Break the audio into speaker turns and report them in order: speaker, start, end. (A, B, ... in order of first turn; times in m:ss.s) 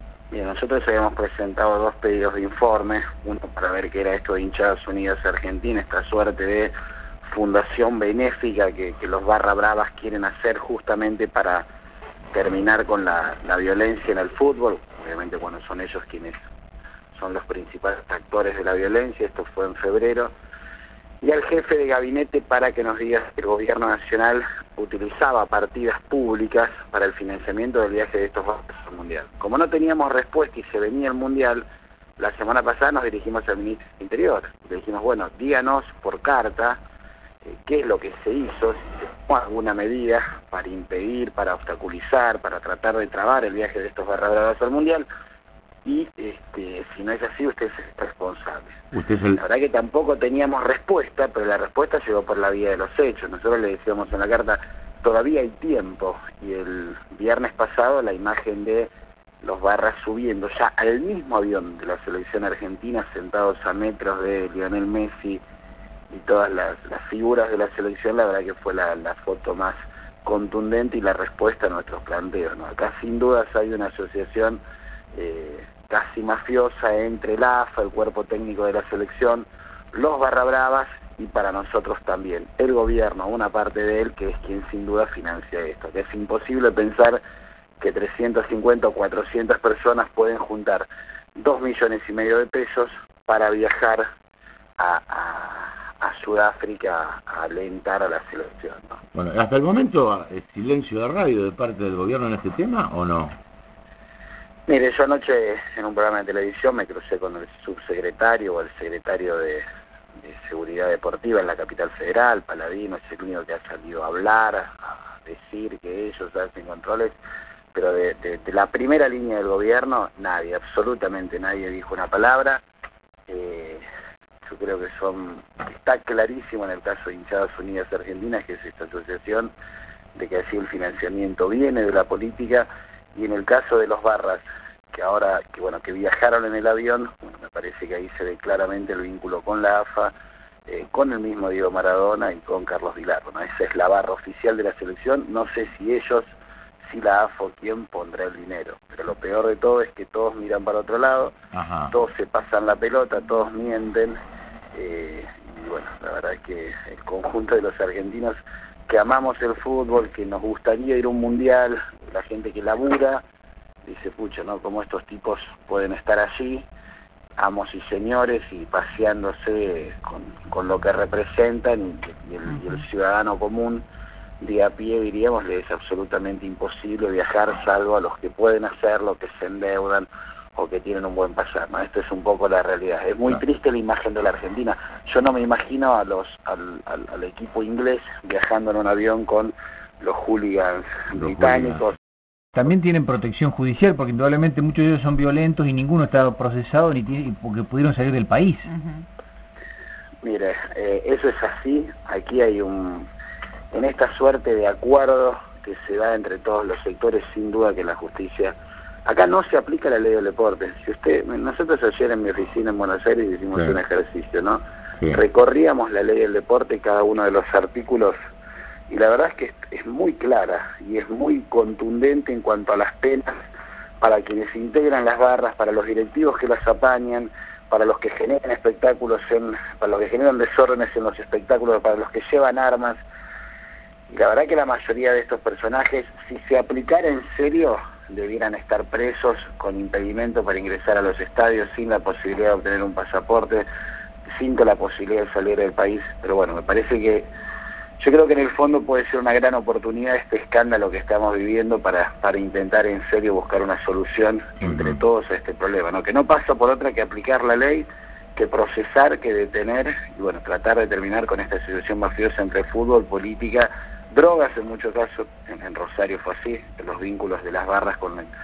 0:00.3-0:06.7 A
0:07.2-0:11.7 A
0:12.3-0:16.4 A
0:17.1-0:20.3 A
0:21.2-0:31.6 A
0:32.2-0:36.8 A
0:37.4-0:45.1 A
0:45.8-0:48.8 A
0:48.9-0:49.4 B
0:49.3-0:58.9 A
0:59.4-1:05.4 A
1:06.1-1:14.6 A
1:15.1-1:27.2 A
1:27.8-1:34.0 A
1:34.8-1:39.0 A
1:39.2-1:43.4 B
1:44.7-1:49.6 A
1:50.2-1:57.2 A
1:57.7-2:02.6 A
2:03.3-2:03.8 A
2:04.4-2:09.5 A
2:10.2-2:20.1 A
2:20.7-2:26.3 A
2:26.8-2:31.3 A
2:31.5-2:31.9 B
2:31.9-2:34.2 A
2:34.8-2:43.2 A
2:43.8-2:46.7 A
2:47.4-2:53.8 A
2:54.4-3:12.0 A
3:11.1-3:11.8 B
3:12.6-3:18.7 C
3:20.2-3:23.1 A
3:23.7-3:28.6 A
3:29.1-3:38.2 A
3:38.9-3:43.3 A
3:44.0-3:53.0 A
3:54.1-4:03.7 A
4:04.3-4:07.3 A
4:08.0-4:28.3 A